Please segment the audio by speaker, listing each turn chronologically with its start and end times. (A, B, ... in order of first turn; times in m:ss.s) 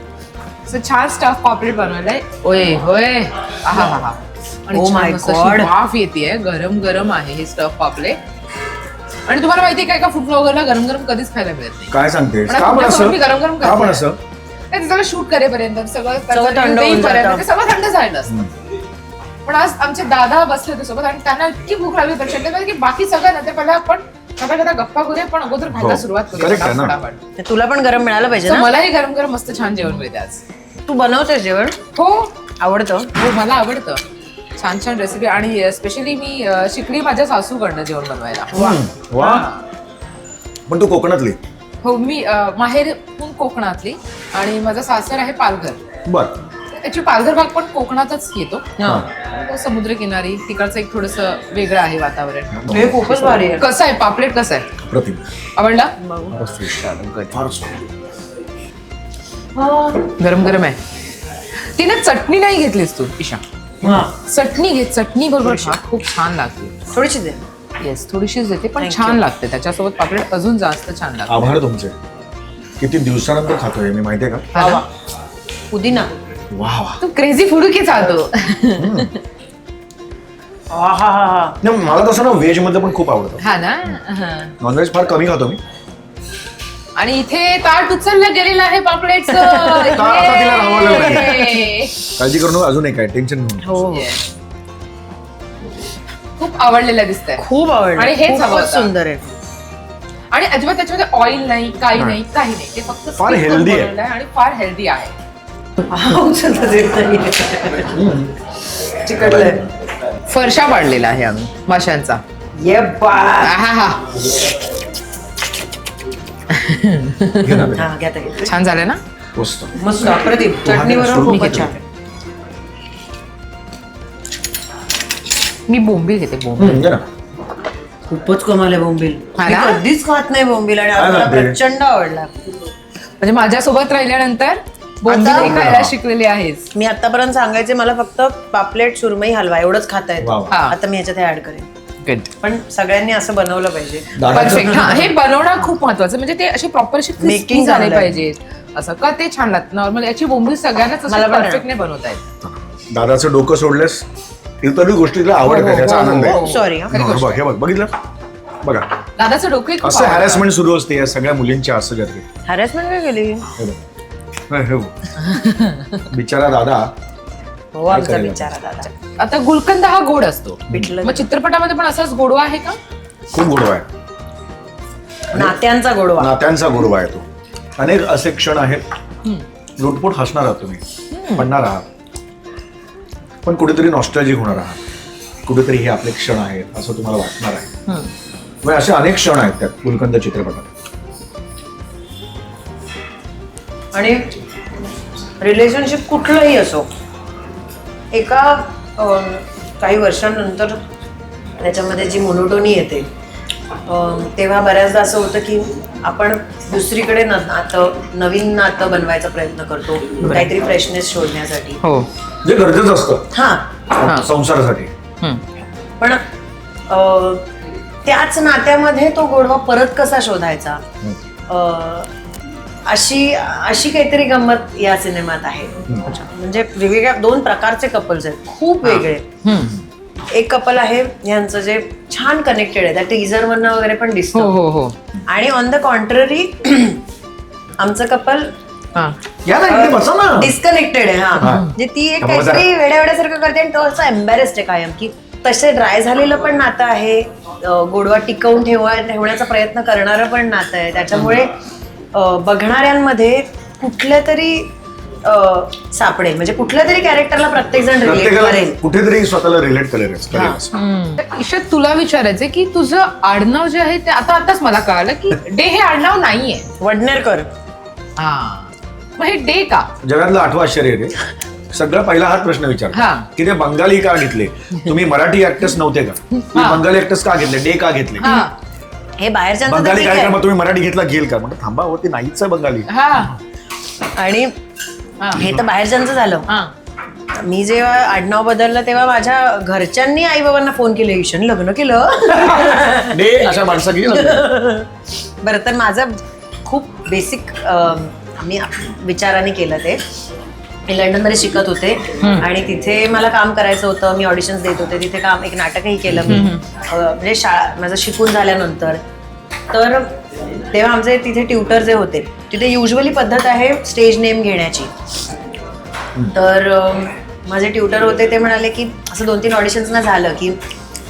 0:00.7-0:08.2 A
0:04.7-0:05.7 B
0:09.3-0:11.9 A
0:11.9-0:14.2 C
0:12.5-0:14.0 A
0:14.7-0:18.4 A
0:16.3-0:17.4 B
0:19.4-0:27.2 A
0:25.7-0:27.0 C
0:27.4-0:28.8 B
0:28.5-0:30.4 A
0:30.8-0:31.8 B
0:31.9-0:32.3 A
0:32.6-0:33.1 B
0:33.1-0:34.0 A
0:34.6-0:39.6 A
0:38.5-0:39.5 C
0:40.7-0:41.4 C
0:41.8-0:45.8 A
0:46.0-0:46.3 C
0:46.7-0:52.8 A
0:48.8-0:49.1 B
0:48.8-0:49.1 C
0:52.5-0:53.5 C
0:52.7-0:53.7 B
0:53.5-0:54.7 A
0:54.8-0:55.2 C
0:55.6-0:57.4 A
0:56.0-0:56.4 B
0:56.3-0:57.9 C
0:59.6-1:00.1 B
1:00.2-1:00.8 A
1:01.6-1:03.4 A
1:03.8-1:04.1 B
1:04.2-1:06.8 A
1:05.4-1:05.8 B
1:06.9-1:07.4 B
1:07.8-1:11.5 A
1:08.8-1:09.2 B
1:11.3-1:11.9 C
1:12.8-1:14.5 C
1:14.5-1:14.8 A
1:14.6-1:14.8 B
1:15.7-1:16.1 B
1:16.5-1:17.0 C
1:17.0-1:19.2 A
1:18.8-1:19.1 C
1:20.7-1:21.6 B
1:21.6-1:24.0 C
1:23.4-1:24.5 A
1:24.6-1:25.6 C
1:27.0-1:32.1 A
1:29.3-1:30.4 B
1:29.9-1:31.5 C
1:32.1-1:33.8 C
1:33.6-1:34.1 B
1:33.8-1:34.2 A
1:36.4-1:37.4 A
1:37.4-1:39.3 B
1:38.0-1:38.9 A
1:40.3-1:45.1 A
1:43.2-1:43.9 C
1:45.9-1:48.0 B
1:47.9-1:48.3 C
1:49.0-1:49.6 B
1:49.1-1:49.7 C
1:50.3-1:52.2 A
1:52.6-1:53.6 B
1:53.4-1:54.1 A
1:56.5-1:57.7 A
1:57.4-1:57.9 C
1:57.7-1:58.5 B
1:58.4-1:59.0 A
1:59.4-2:01.7 C
1:59.8-2:01.8 B
2:01.2-2:01.7 A
2:05.7-2:06.8 A
2:06.6-2:07.0 C
2:08.1-2:12.5 B
2:09.4-2:09.8 A
2:10.9-2:11.6 C
2:13.2-2:16.7 A
2:15.1-2:15.7 B
2:15.1-2:15.9 C
2:16.7-2:21.7 B
2:20.2-2:20.5 C
2:20.5-2:20.8 A
2:22.0-2:22.3 A
2:22.4-2:25.1 B
2:24.1-2:25.0 C
2:24.3-2:32.2 A
2:27.2-2:28.2 B
2:31.1-2:31.6 B
2:32.4-2:34.0 C
2:34.6-2:37.9 C
2:35.4-2:37.3 A
2:35.6-2:37.2 B
2:38.6-2:38.9 C
2:39.2-2:40.5 A
2:39.8-2:42.2 C
2:42.4-2:43.5 B
2:44.5-2:45.2 C
2:45.2-2:45.9 A
2:46.1-2:46.9 C
2:47.7-2:48.9 B
2:47.9-2:48.5 C
2:49.2-2:52.8 A
2:50.7-2:51.0 C
2:50.7-2:51.3 B
2:53.3-2:53.8 C
2:55.3-2:56.4 B
2:56.2-2:57.2 C
2:57.8-2:58.8 C
2:59.8-3:00.8 C
3:01.1-3:01.5 A
3:01.3-3:01.8 C
3:03.4-3:04.8 C
3:05.4-3:07.7 C
3:08.6-3:10.7 C
3:13.9-3:14.3 B
3:15.4-3:16.9 B
3:18.1-3:20.8 B
3:21.6-3:23.1 B
3:23.9-3:31.8 B
3:30.2-3:30.5 C
3:31.8-3:32.1 A
3:32.4-3:33.3 C
3:33.3-3:33.7 B
3:33.9-3:34.9 C
3:36.9-3:37.5 B
3:38.0-3:40.8 B
3:41.5-3:42.1 B
3:42.8-3:49.2 B
3:48.8-3:49.8 A
3:50.3-3:54.5 B
3:54.3-3:54.9 A
3:55.3-3:57.0 B
3:57.8-3:58.5 B
3:59.4-4:00.5 C
3:59.7-4:11.5 B
4:01.4-4:02.7 C
4:12.1-4:14.7 B
4:15.2-4:18.8 B
4:18.0-4:20.7 C
4:20.4-4:26.7 A
4:26.8-4:27.5 B
4:28.2-4:29.9 A
4:30.0-4:31.1 C
4:31.7-4:38.3 C
4:32.9-4:33.3 A
4:36.5-4:36.8 A
4:38.2-4:38.5 A
4:38.2-4:38.5 B
4:39.2-4:40.4 B
4:39.6-4:43.2 C
4:42.9-4:43.4 A
4:44.2-4:44.5 B
4:45.4-4:46.4 B
4:47.3-4:54.9 B
4:52.3-4:54.5 C
4:55.4-5:00.0 B
5:00.9-5:09.0 B
5:02.2-5:02.4 A
5:06.2-5:06.5 C
5:06.3-5:06.6 A
5:09.7-5:10.1 B
5:10.7-5:14.9 B
5:16.3-5:20.6 B